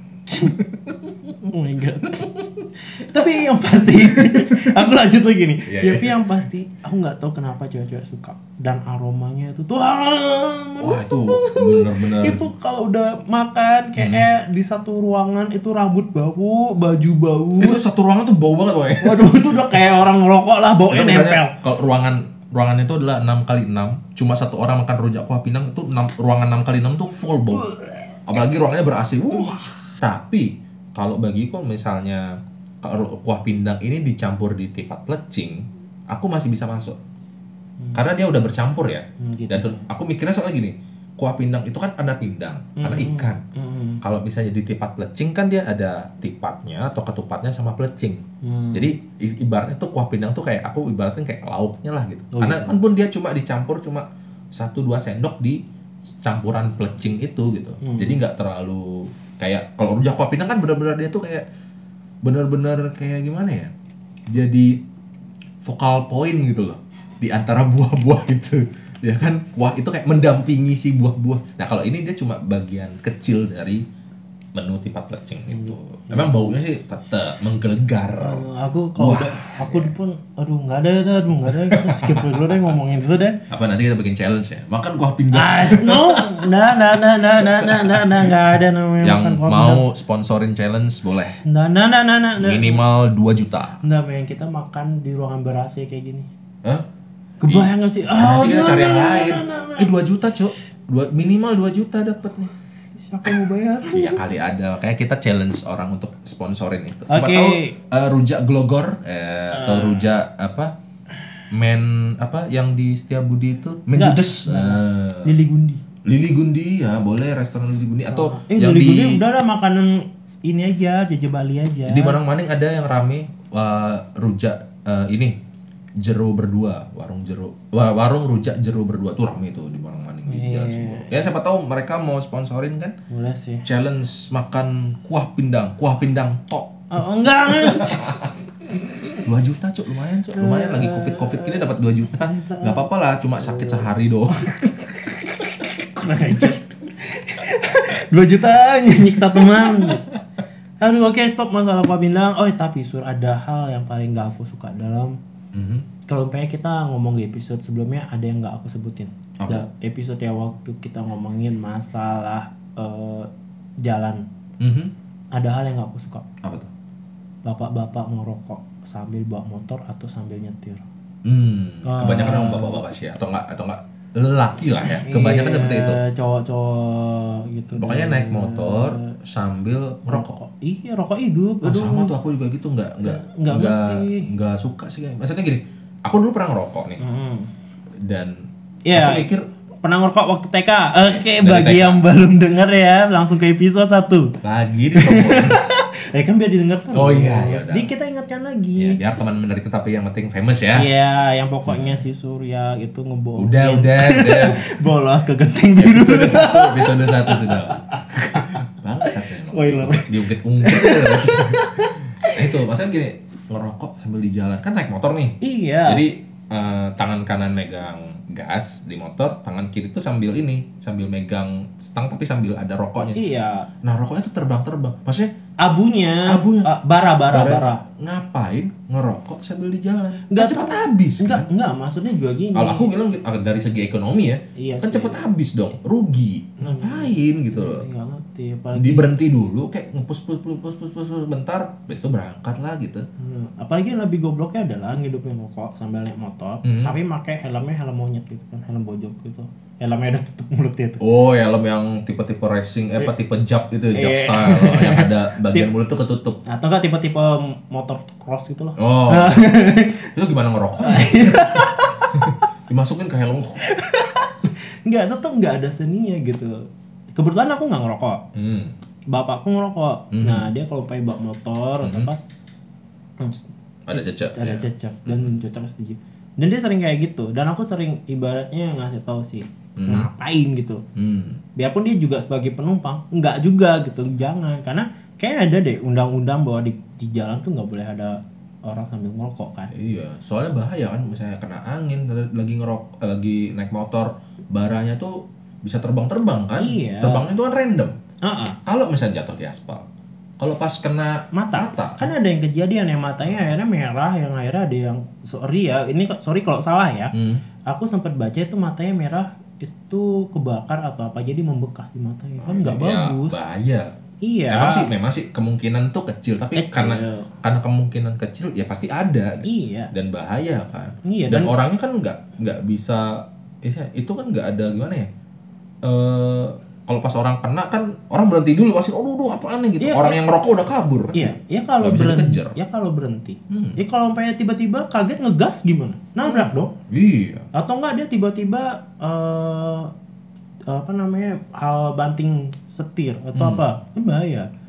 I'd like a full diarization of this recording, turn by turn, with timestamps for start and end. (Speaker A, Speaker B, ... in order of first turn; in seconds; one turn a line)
Speaker A: 0.3-0.6
Speaker B: 0.3-1.5
Speaker A: 1.5-17.8
Speaker B: 3.9-4.8
Speaker B: 5.7-6.2
Speaker B: 10.8-12.5
Speaker B: 14.0-14.2
Speaker B: 17.6-19.9
Speaker A: 19.0-21.6
Speaker B: 20.9-27.7
Speaker A: 27.5-28.1
Speaker B: 28.3-37.0
Speaker B: 37.9-43.4
Speaker A: 39.2-39.9
Speaker A: 42.8-44.0
Speaker B: 44.0-61.5
Speaker A: 48.4-48.9
Speaker A: 52.3-52.7
Speaker A: 57.8-58.2
Speaker B: 62.2-63.7
Speaker B: 64.3-64.8
Speaker B: 65.6-73.8
Speaker B: 74.5-78.5
Speaker A: 75.5-76.4
Speaker A: 78.2-83.4
Speaker B: 79.0-79.9
Speaker B: 81.5-82.7
Speaker B: 83.5-88.3
Speaker A: 85.3-89.8
Speaker B: 89.0-91.4
Speaker A: 91.4-92.8
Speaker B: 92.4-93.8
Speaker A: 93.8-96.3
Speaker A: 97.4-99.9
Speaker B: 97.5-102.5
Speaker A: 103.0-104.2
Speaker B: 103.2-110.7
Speaker A: 107.1-107.8
Speaker A: 109.5-110.1
Speaker B: 111.5-115.3
Speaker A: 114.0-115.8
Speaker B: 116.0-119.2
Speaker A: 118.1-122.2
Speaker B: 121.9-125.4
Speaker B: 126.0-132.9
Speaker A: 130.3-131.2
Speaker A: 133.1-133.7
Speaker B: 133.6-136.8
Speaker A: 136.9-139.2
Speaker B: 137.5-138.3
Speaker B: 139.2-144.6
Speaker A: 140.3-142.9
Speaker A: 143.4-150.1
Speaker B: 149.3-150.2
Speaker A: 150.8-155.2
Speaker B: 155.5-155.9
Speaker A: 156.1-163.3
Speaker B: 159.4-159.7
Speaker A: 163.8-164.2
Speaker B: 164.6-164.9
Speaker A: 165.3-166.2
Speaker B: 166.4-166.7
Speaker A: 167.4-170.8
Speaker B: 171.2-176.0
Speaker A: 171.8-172.8
Speaker A: 174.8-179.2
Speaker B: 177.7-180.4
Speaker A: 180.1-182.1
Speaker B: 181.6-187.0
Speaker A: 183.0-184.3
Speaker A: 187.0-187.5
Speaker B: 188.0-189.4
Speaker A: 188.9-189.3
Speaker A: 189.8-194.4
Speaker B: 191.0-192.0
Speaker B: 194.4-195.6
Speaker A: 194.9-199.0
Speaker B: 196.9-197.9
Speaker B: 198.8-200.9
Speaker A: 200.8-212.5
Speaker B: 201.7-202.0
Speaker B: 203.4-204.7
Speaker B: 205.8-223.2
Speaker A: 215.4-216.0
Speaker A: 223.2-223.7
Speaker B: 223.8-225.3
Speaker A: 225.6-227.8
Speaker B: 226.3-226.7
Speaker B: 227.3-231.5
Speaker A: 230.3-232.9
Speaker B: 232.6-237.9
Speaker A: 234.6-235.2
Speaker A: 236.6-239.1
Speaker B: 238.7-243.1
Speaker A: 243.2-251.0
Speaker B: 246.6-246.9
Speaker B: 251.0-256.4
Speaker A: 253.9-255.7
Speaker A: 256.4-260.1
Speaker B: 258.8-263.6
Speaker A: 260.8-262.2
Speaker A: 263.6-268.2
Speaker B: 268.3-268.8
Speaker A: 269.1-272.2
Speaker B: 270.1-270.5
Speaker B: 271.8-272.1
Speaker A: 273.2-280.8
Speaker B: 273.9-275.3
Speaker B: 279.8-280.1
Speaker B: 281.0-281.4
Speaker A: 281.6-289.7
Speaker B: 289.7-298.0
Speaker A: 296.6-297.3
Speaker A: 298.2-298.6
Speaker B: 298.7-299.9
Speaker B: 300.4-302.1
Speaker A: 301.3-307.1
Speaker B: 303.3-303.5
Speaker B: 307.1-307.4
Speaker A: 307.7-313.4
Speaker B: 312.4-313.9
Speaker A: 314.2-314.9
Speaker B: 314.5-325.1
Speaker A: 316.6-317.3
Speaker A: 319.4-319.9
Speaker A: 321.1-321.5
Speaker B: 325.8-332.6
Speaker A: 329.8-330.2
Speaker A: 331.1-336.7
Speaker B: 333.5-333.8
Speaker B: 336.2-337.5
Speaker A: 337.5-339.9
Speaker A: 340.7-344.5
Speaker B: 343.4-343.7